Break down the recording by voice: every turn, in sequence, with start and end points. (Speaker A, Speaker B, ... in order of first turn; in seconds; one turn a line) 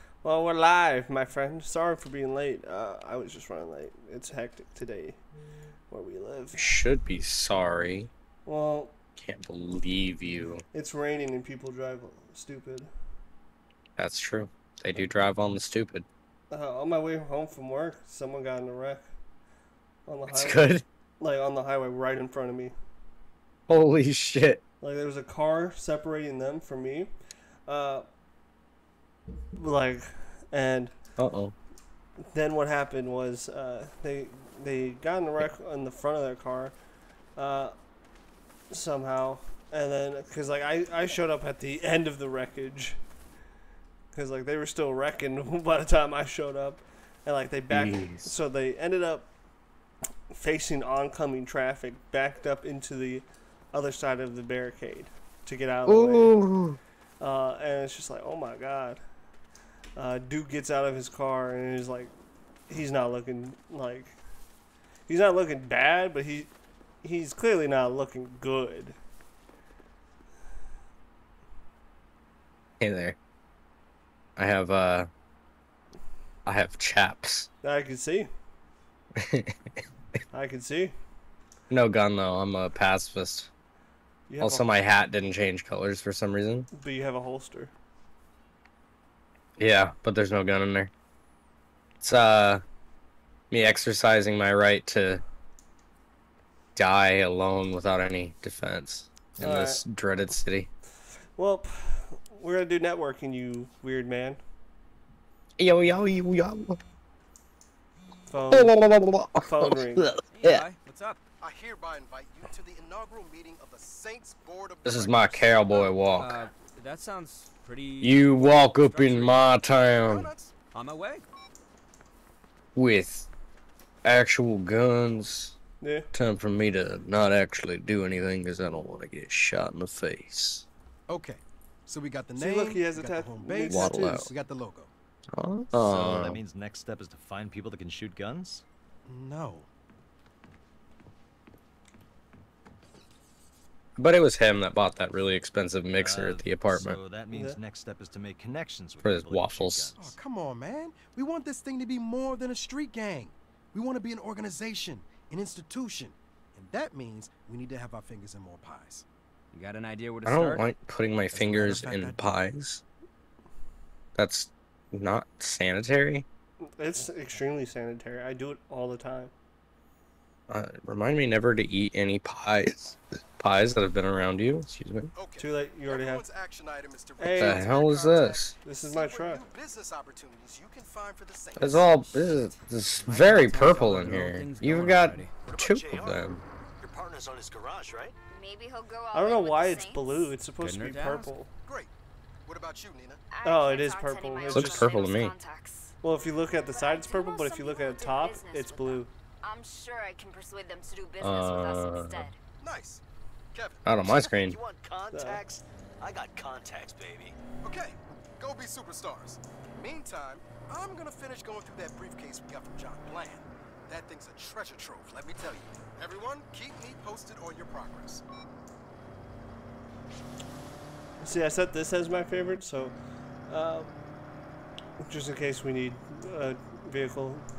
Speaker A: 0.2-5.2
Speaker A: 5.9-6.6
Speaker B: 6.5-8.1
Speaker A: 8.5-8.9
Speaker B: 9.2-10.6
Speaker A: 10.7-12.9
Speaker B: 14.0-16.1
Speaker A: 16.5-19.1
Speaker A: 20.1-22.8
Speaker B: 20.3-20.8
Speaker B: 23.7-24.6
Speaker A: 24.8-27.1
Speaker A: 27.7-28.1
Speaker A: 29.6-30.9
Speaker B: 31.2-31.5
Speaker A: 32.3-36.8
Speaker A: 37.4-37.7
Speaker A: 38.7-43.0
Speaker A: 44.1-49.3
Speaker B: 47.7-48.4
Speaker A: 50.3-56.4
Speaker B: 55.9-56.8
Speaker A: 57.2-59.0
Speaker A: 60.0-62.1
Speaker A: 62.7-64.2
Speaker A: 65.1-66.5
Speaker A: 67.0-69.0
Speaker B: 72.8-73.2
Speaker B: 74.4-75.1
Speaker B: 76.5-77.5
Speaker A: 77.6-78.3
Speaker B: 79.2-79.5
Speaker A: 80.3-81.0
Speaker B: 81.7-83.5
Speaker A: 84.3-84.7
Speaker B: 84.4-86.7
Speaker A: 86.7-87.7
Speaker B: 89.6-90.9
Speaker B: 92.0-92.6
Speaker B: 93.5-95.2
Speaker B: 96.8-100.7
Speaker A: 99.4-99.8
Speaker A: 101.4-104.4
Speaker B: 105.6-106.8
Speaker A: 108.3-108.8
Speaker B: 108.5-110.7
Speaker A: 109.5-110.1
Speaker C: 110.3-111.2
Speaker D: 111.4-116.0
Speaker B: 114.9-116.4
Speaker C: 116.1-119.5
Speaker B: 118.0-120.3
Speaker D: 120.0-120.5
Speaker C: 120.7-121.2
Speaker B: 122.8-123.3
Speaker B: 124.0-125.6
Speaker A: 125.8-126.1
Speaker B: 126.1-130.7
Speaker D: 131.1-134.9
Speaker A: 132.4-134.2
Speaker B: 133.7-134.3
Speaker B: 135.3-136.4
Speaker E: 135.8-136.5
Speaker F: 135.8-138.6
Speaker D: 139.1-139.7
Speaker B: 144.0-147.0
Speaker E: 146.0-147.7
Speaker F: 146.5-150.1
Speaker A: 147.3-147.6
Speaker E: 148.9-149.9
Speaker B: 149.0-150.0
Speaker D: 149.9-159.1
Speaker C: 159.5-160.7
Speaker B: 160.2-162.8
Speaker D: 161.3-162.2
Speaker B: 164.2-166.2
Speaker A: 166.6-169.3
Speaker B: 170.5-175.1
Speaker D: 175.2-181.9
Speaker A: 175.4-176.3
Speaker A: 177.2-177.7
Speaker B: 177.4-178.6
Speaker A: 178.6-179.4
Speaker B: 181.6-186.4
Speaker C: 183.0-185.3
Speaker E: 186.9-187.9
Speaker G: 188.3-190.3
Speaker A: 189.1-191.5
Speaker C: 190.6-191.3
Speaker D: 191.7-191.9
Speaker D: 192.5-193.2
Speaker G: 193.3-196.0
Speaker A: 193.4-194.9
Speaker B: 194.5-195.3
Speaker A: 196.0-199.1
Speaker G: 196.7-202.4
Speaker B: 201.2-202.3
Speaker D: 202.6-203.0
Speaker D: 203.5-203.8
Speaker B: 203.9-204.6
Speaker E: 204.1-207.3
Speaker F: 204.5-205.3
Speaker A: 205.1-205.4
Speaker D: 207.6-218.2
Speaker A: 221.2-223.9
Speaker A: 225.0-227.5